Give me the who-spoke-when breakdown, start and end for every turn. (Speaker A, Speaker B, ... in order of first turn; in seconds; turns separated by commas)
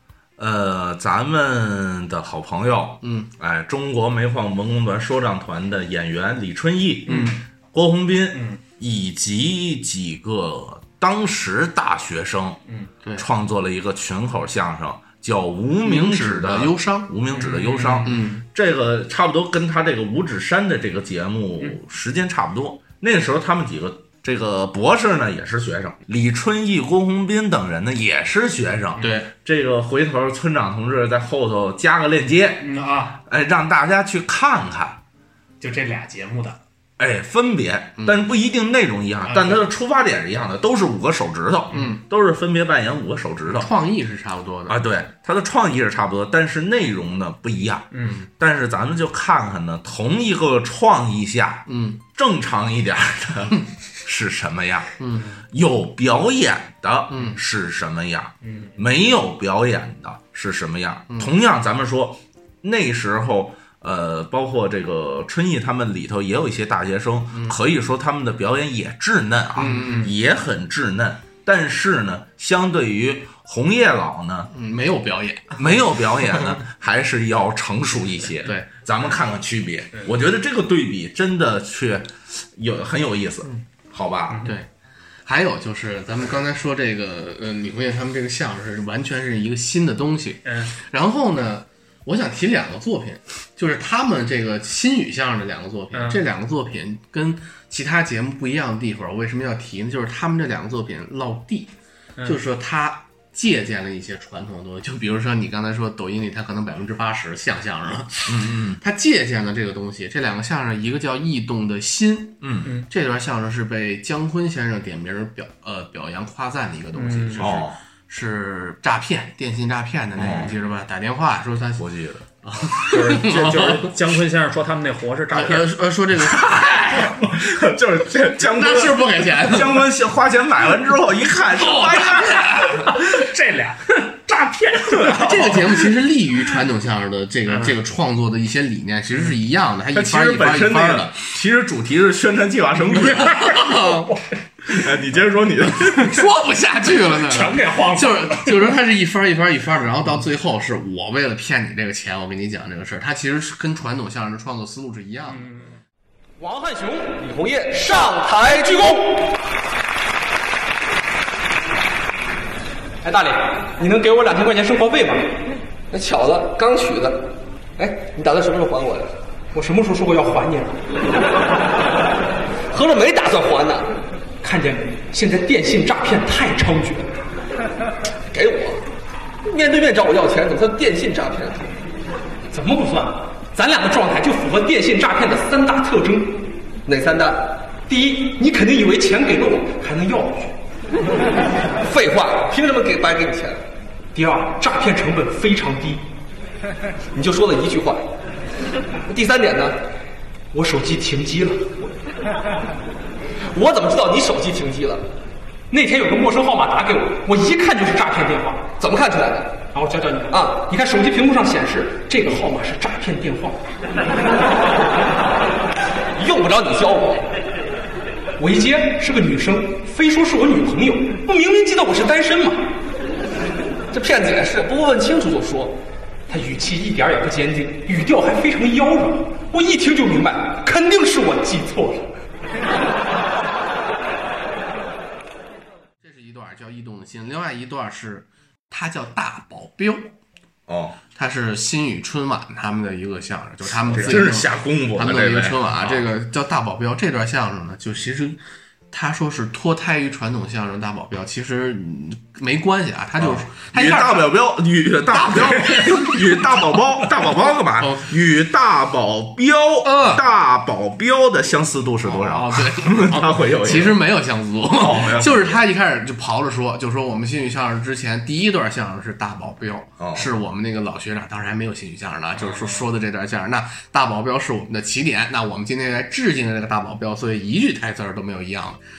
Speaker A: 0.4-12.6, Speaker B: 3.0-3.3, Speaker C: 7.1-7.4, Speaker C: 8.3-8.6, Speaker A: 13.2-32.7, Speaker B: 15.8-17.1, Speaker C: 17.3-18.4, Speaker B: 18.0-18.4, Speaker B: 29.0-29.3, Speaker C: 32.6-33.2, Speaker A: 33.2-35.0, Speaker C: 35.6-36.6, Speaker A: 37.0-43.7, Speaker B: 38.0-38.2, Speaker C: 39.3-39.6, Speaker B: 41.7-42.0, Speaker B: 43.5-44.8, Speaker A: 44.7-54.9, Speaker C: 47.9-48.2, Speaker B: 51.7-52.0, Speaker B: 55.0-55.3, Speaker A: 55.5-74.5, Speaker B: 57.1-57.4, Speaker C: 58.4-58.8, Speaker B: 69.6-70.1, Speaker C: 69.6-70.1, Speaker B: 74.5-75.7, Speaker A: 75.5-84.5, Speaker B: 78.4-78.7, Speaker B: 85.2-101.7, Speaker C: 90.4-90.7, Speaker C: 95.9-96.2, Speaker B: 102.2-121.8, Speaker A: 108.2-108.8, Speaker A: 112.4-112.7, Speaker C: 116.9-117.5, Speaker A: 117.4-117.8, Speaker A: 120.2-120.5, Speaker A: 121.8-122.2, Speaker B: 122.4-124.0, Speaker C: 122.7-125.7, Speaker B: 125.3-126.6, Speaker A: 126.2-132.9, Speaker B: 128.4-129.9, Speaker C: 131.7-135.9, Speaker A: 134.9-135.6, Speaker B: 135.1-141.2, Speaker C: 137.5-137.8, Speaker A: 139.9-143.5, Speaker C: 142.9-144.2, Speaker B: 143.0-144.2, Speaker A: 144.7-146.2, Speaker B: 145.7-155.4, Speaker C: 146.9-148.8, Speaker C: 155.3-155.8, Speaker D: 156.4-159.3, Speaker D: 163.0-165.4, Speaker D: 165.9-170.8, Speaker D: 172.7-177.1, Speaker D: 178.3-178.8, Speaker D: 179.4-181.7, Speaker D: 182.5-190.6, Speaker D: 191.8-193.6, Speaker D: 194.1-196.1, Speaker D: 197.1-198.1, Speaker D: 199.1-199.8, Speaker D: 200.5-201.8, Speaker D: 203.5-205.1, Speaker D: 205.7-213.7, Speaker D: 216.2-217.3, Speaker D: 218.4-222.7, Speaker D: 223.9-232.1, Speaker B: 236.0-240.1, Speaker A: 240.7-241.0, Speaker B: 241.1-248.4, Speaker A: 243.8-246.0, Speaker B: 248.9-254.3, Speaker A: 253.2-264.1, Speaker B: 255.1-256.1, Speaker B: 257.8-258.1, Speaker B: 259.8-260.2, Speaker B: 262.0-278.8, Speaker A: 264.7-265.6, Speaker A: 270.0-270.3, Speaker C: 272.4-272.8